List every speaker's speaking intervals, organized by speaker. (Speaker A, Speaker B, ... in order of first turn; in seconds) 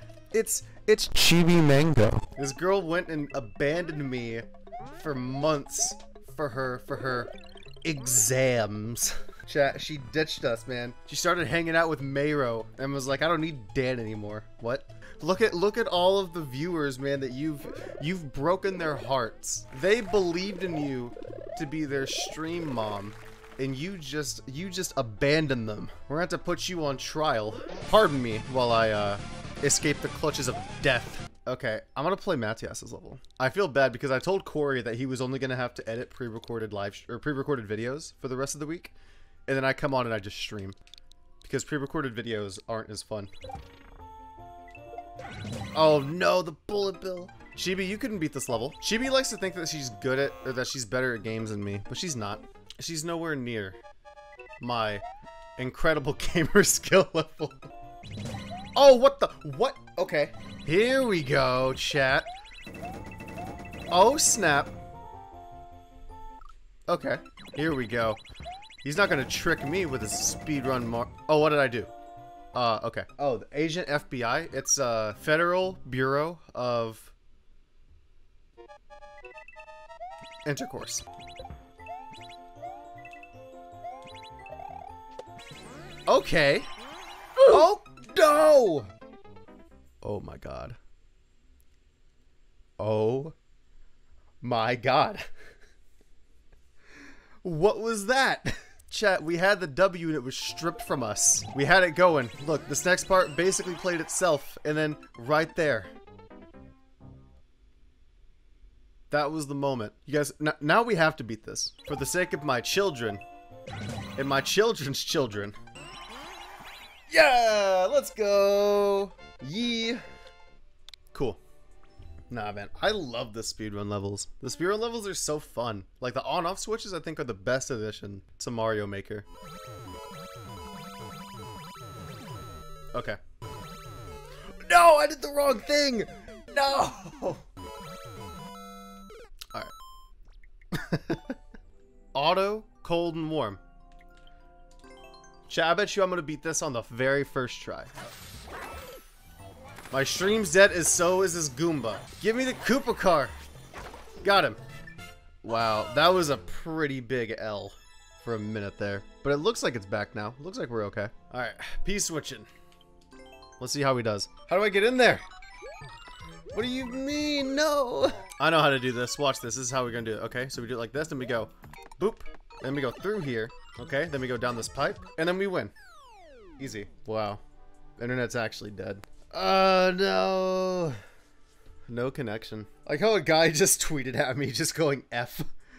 Speaker A: 0.3-7.3, 7.8-38.9, 39.5-40.8, 41.4-43.3, 45.7-53.8, 54.6-55.0, 55.6-57.7, 58.7-62.3, 63.9-64.8, 66.9-68.2, 68.8-71.9, 72.5-77.1, 80.4-81.0, 86.1-86.7, 87.4-88.9, 90.0-90.8, 92.8-93.3, 94.4-95.3, 97.4-105.9, 109.1-113.2, 114.2-115.5, 117.1-120.0, 121.1-121.4, 122.3-129.2, 132.9-133.2, 134.6-137.4, 140.7-141.3, 142.1-143.6, 145.5-147.9, 149.9-153.3, 154.2-154.6, 155.4-162.5, 163.6-165.2, 166.5-175.7, 176.6-177.4, 178.0-181.0, 181.9-185.5